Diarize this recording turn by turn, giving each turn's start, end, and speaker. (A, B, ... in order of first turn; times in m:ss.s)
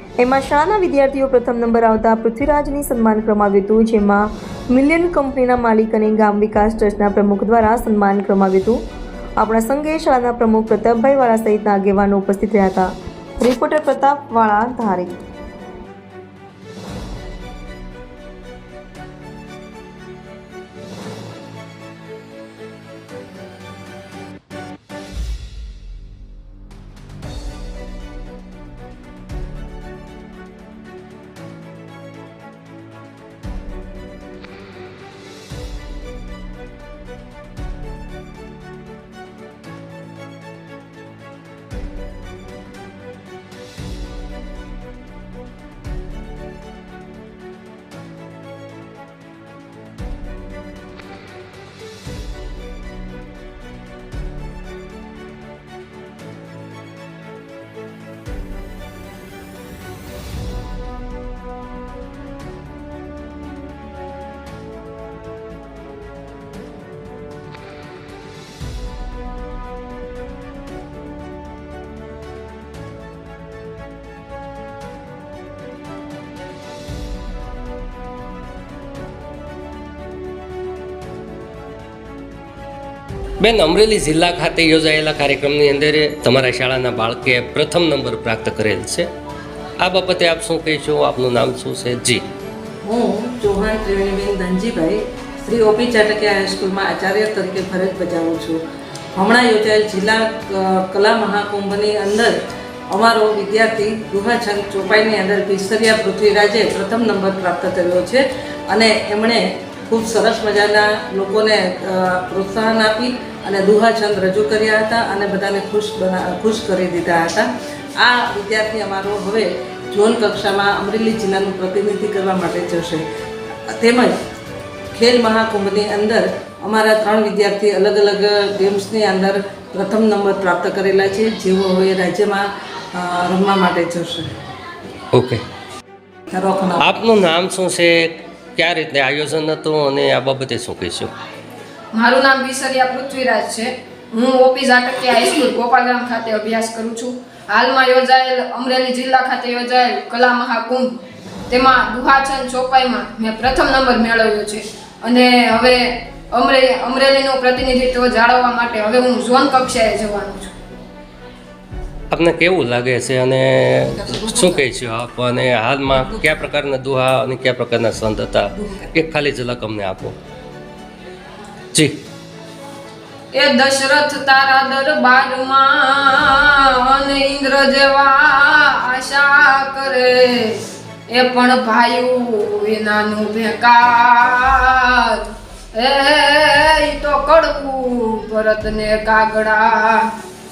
0:00.2-0:08.8 A
0:09.4-0:15.2 A
1:23.4-1:29.1 B
1:29.8-1:32.2 B
1:32.8-1:38.6 C
1:39.2-1:42.3 C
1:42.9-2:03.0 C
2:03.7-2:04.2 C
2:04.9-2:14.3 C
2:15.1-2:15.4 B
2:16.3-2:16.9 C
2:16.8-2:21.1 B
2:21.9-2:31.0 D
2:31.5-2:40.5 D
2:42.1-2:50.1 B
2:53.3-3:10.1 D